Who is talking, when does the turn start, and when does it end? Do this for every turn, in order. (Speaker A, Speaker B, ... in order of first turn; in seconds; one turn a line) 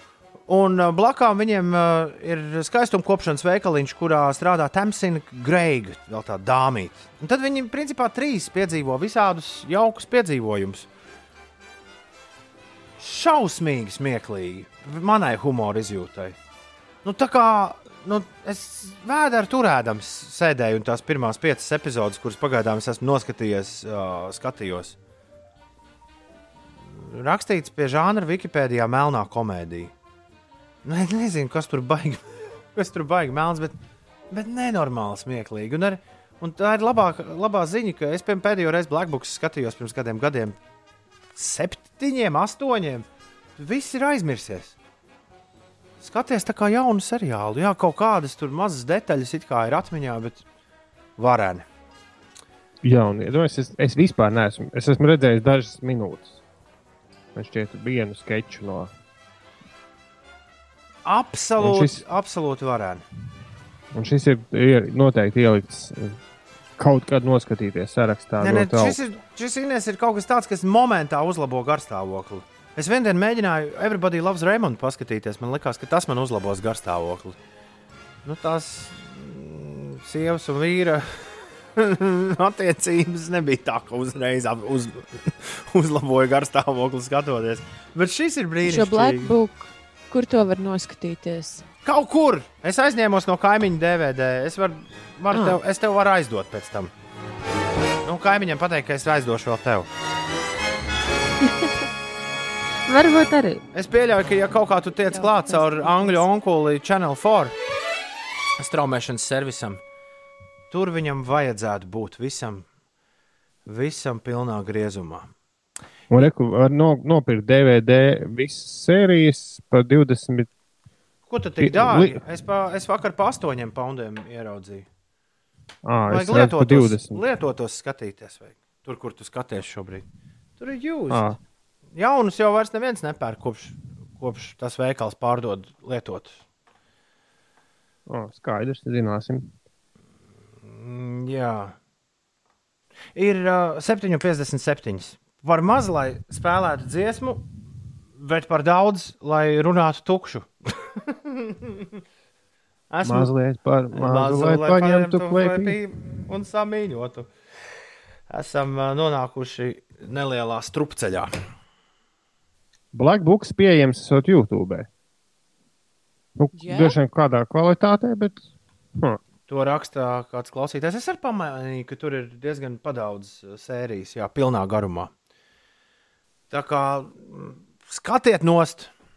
Speaker A: 0.5-10.9
Speaker A: 13.0-16.4
Speaker A: 17.0-24.9
Speaker A: 26.9-29.9
Speaker A: 30.8-32.2
Speaker A: 32.7-33.7
Speaker A: 34.3-40.5
Speaker A: 41.4-43.0
Speaker A: 43.6-44.7
Speaker A: 46.0-50.4
Speaker A: 51.2-51.6
Speaker B: 52.8-56.4
Speaker B: 57.3-58.9
Speaker A: 61.0-63.0
Speaker B: 61.6-62.0
Speaker B: 63.9-66.2
Speaker B: 66.8-69.0
Speaker A: 68.4-77.4
Speaker A: 78.2-89.3
Speaker C: 88.6-91.6
Speaker A: 91.8-96.9
Speaker C: 95.3-95.6
Speaker A: 98.0-99.9
Speaker C: 101.4-101.7
Speaker C: 102.9-103.6
Speaker A: 103.7-107.5
Speaker C: 105.1-106.2
Speaker A: 108.6-109.8
Speaker A: 110.7-112.7
Speaker A: 113.7-115.3
Speaker B: 116.1-120.5
Speaker A: 121.3-124.8
Speaker B: 121.6-122.2
Speaker B: 125.8-127.2
Speaker A: 126.1-130.0
Speaker A: 130.6-131.3
Speaker B: 131.1-131.4
Speaker A: 131.9-136.4
Speaker B: 138.1-139.5
Speaker A: 140.7-141.7
Speaker A: 143.1-147.5
Speaker A: 148.2-151.9
Speaker A: 152.9-153.3
Speaker B: 153.0-155.8
Speaker A: 153.9-157.3
Speaker A: 158.3-161.3
Speaker B: 162.9-164.9
Speaker B: 166.4-168.4
Speaker C: 166.5-167.0
Speaker A: 169.5-175.1
Speaker A: 176.5-178.9